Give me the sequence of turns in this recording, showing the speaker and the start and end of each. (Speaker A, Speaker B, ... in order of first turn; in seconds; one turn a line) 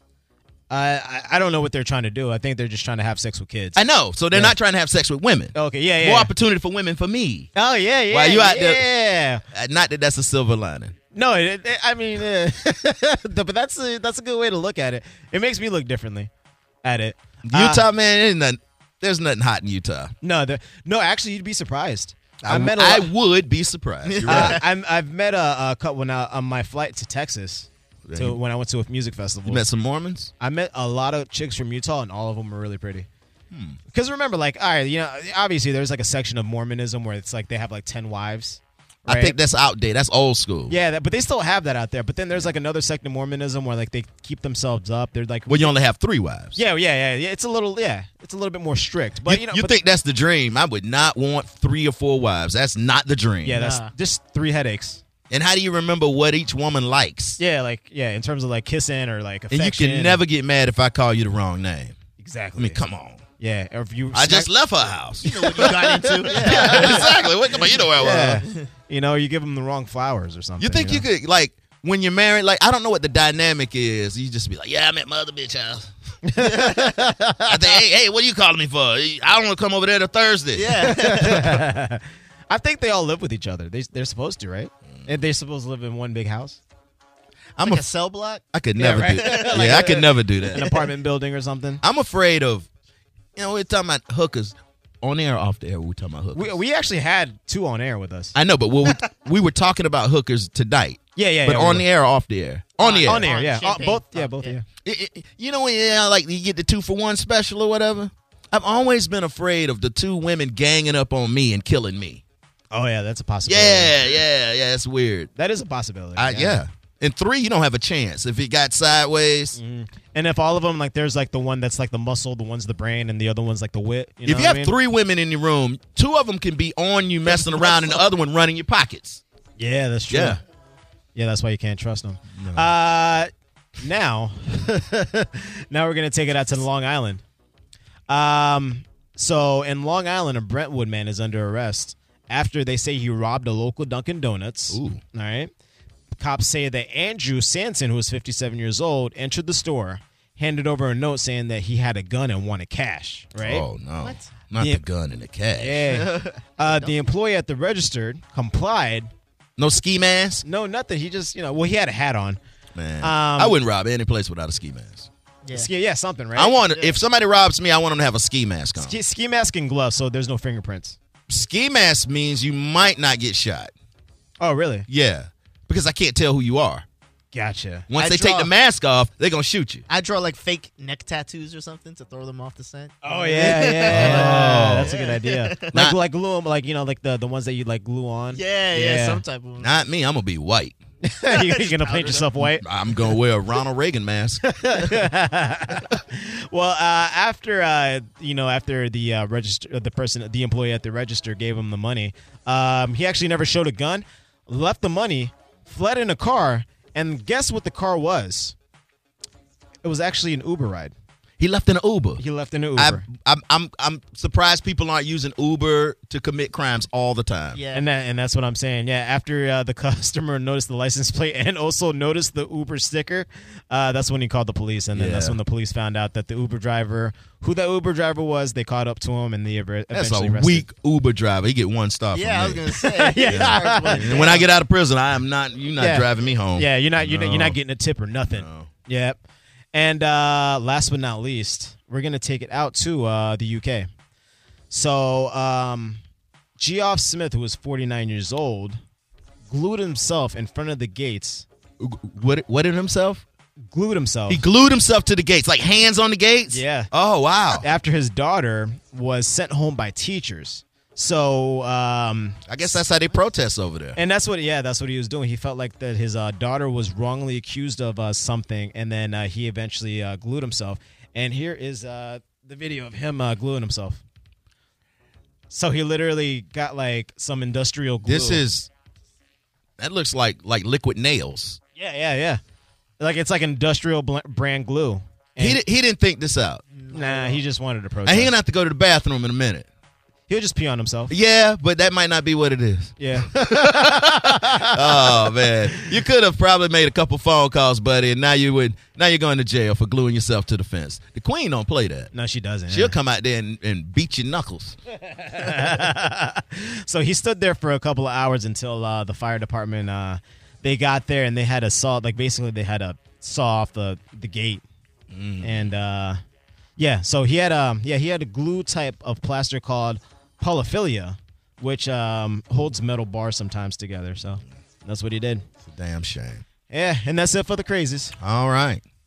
Speaker A: 0.7-3.8
Speaker B: 3.8-7.5
Speaker A: 5.5-6.3
Speaker A: 7.5-9.4
Speaker B: 8.1-8.9
Speaker B: 9.5-10.9
Speaker A: 11.1-16.3
Speaker A: 16.8-17.9
Speaker B: 17.4-20.1
Speaker A: 20.2-23.1
Speaker B: 22.4-24.6
Speaker C: 24.1-24.6
Speaker A: 24.2-29.6
Speaker B: 28.1-28.4
Speaker B: 29.4-30.3
Speaker A: 30.4-33.1
Speaker B: 33.5-33.8
Speaker A: 33.9-39.4
Speaker B: 39.1-40.8
Speaker A: 40.7-45.7
Speaker B: 45.5-46.6
Speaker A: 46.6-49.8
Speaker B: 49.2-53.6
Speaker A: 53.4-55.0
Speaker C: 53.5-53.9
Speaker B: 55.3-57.4
Speaker A: 57.4-60.2
Speaker B: 59.5-62.0
Speaker A: 62.2-62.8
Speaker B: 62.6-63.2
Speaker A: 63.4-64.5
Speaker B: 64.1-65.7
Speaker C: 65.2-67.9
Speaker A: 65.6-67.1
Speaker B: 66.3-68.4
Speaker A: 67.9-71.1
Speaker B: 70.6-75.9
Speaker A: 76.3-77.6
Speaker C: 76.4-77.1
Speaker B: 77.5-80.9
Speaker C: 80.5-81.6
Speaker A: 80.8-86.6
Speaker B: 87.6-87.9
Speaker C: 87.6-88.4
Speaker B: 88.5-90.8
Speaker A: 88.8-91.8
Speaker C: 89.0-89.9
Speaker C: 90.5-90.8
Speaker B: 91.8-92.7
Speaker B: 93.4-96.5
Speaker A: 96.3-98.3
Speaker B: 98.3-103.3
Speaker A: 101.2-101.8
Speaker C: 102.8-104.6
Speaker A: 103.0-104.7
Speaker B: 104.8-112.2
Speaker A: 112.7-114.2
Speaker B: 113.5-115.3
Speaker A: 115.4-116.6
Speaker B: 116.2-119.6
Speaker A: 119.6-124.8
Speaker B: 124.3-129.2
Speaker A: 129.6-130.4
Speaker B: 130.1-130.4
Speaker A: 131.2-133.3
Speaker B: 132.4-132.7
Speaker A: 133.8-137.2
Speaker A: 138.1-145.5
Speaker B: 144.7-145.0
Speaker A: 146.2-153.7
Speaker B: 153.4-155.9
Speaker C: 154.0-154.3
Speaker A: 154.6-154.8
Speaker A: 155.6-159.1
Speaker C: 155.9-156.9
Speaker B: 159.6-160.4
Speaker A: 160.4-162.4
Speaker B: 162.8-165.1
Speaker A: 163.0-163.6
Speaker C: 165.4-165.7
Speaker A: 165.5-166.6
Speaker B: 166.4-169.0
Speaker C: 166.6-167.0
Speaker A: 168.8-171.0
Speaker B: 171.3-173.7
Speaker A: 174.4-174.9
Speaker B: 174.9-176.9
Speaker A: 177.3-178.5
Speaker B: 177.9-179.8
Speaker C: 179.9-185.7
Speaker A: 183.0-189.2
Speaker B: 183.8-185.0
Speaker B: 185.7-186.0
Speaker C: 188.3-189.8
Speaker B: 189.6-190.8
Speaker A: 191.0-192.6
Speaker C: 191.3-192.4
Speaker B: 192.4-194.4
Speaker A: 194.4-208.6
Speaker A: 209.8-210.9
Speaker B: 211.4-212.2
Speaker A: 212.2-213.1
Speaker B: 212.8-217.6
Speaker C: 217.5-217.8
Speaker A: 217.7-230.7
Speaker B: 224.9-225.4
Speaker B: 229.9-237.6
Speaker C: 232.1-234.5
Speaker A: 233.0-234.4
Speaker A: 235.8-239.2
Speaker B: 238.3-238.7
Speaker A: 239.7-243.9
Speaker A: 244.7-246.0
Speaker A: 246.6-248.8
Speaker A: 249.5-251.5
Speaker B: 251.8-253.2
Speaker A: 253.7-254.4
Speaker B: 254.3-257.6
Speaker A: 256.5-256.9
Speaker A: 257.5-262.4
Speaker B: 262.5-264.0
Speaker A: 263.9-274.0
Speaker A: 275.5-278.4
Speaker B: 278.0-278.7
Speaker B: 279.8-281.6
Speaker A: 281.8-282.4
Speaker A: 283.0-285.6
Speaker B: 285.4-286.6
Speaker C: 286.7-287.4
Speaker A: 286.9-288.3
Speaker B: 288.1-289.7
Speaker A: 290.3-291.1
Speaker B: 291.1-302.1
Speaker A: 293.0-295.9
Speaker A: 302.1-302.9
Speaker B: 302.7-304.8
Speaker A: 305.1-314.6
Speaker B: 315.1-315.7
Speaker A: 315.4-316.2
Speaker A: 316.8-325.4
Speaker B: 325.6-326.4
Speaker A: 326.7-328.1
Speaker B: 328.2-328.8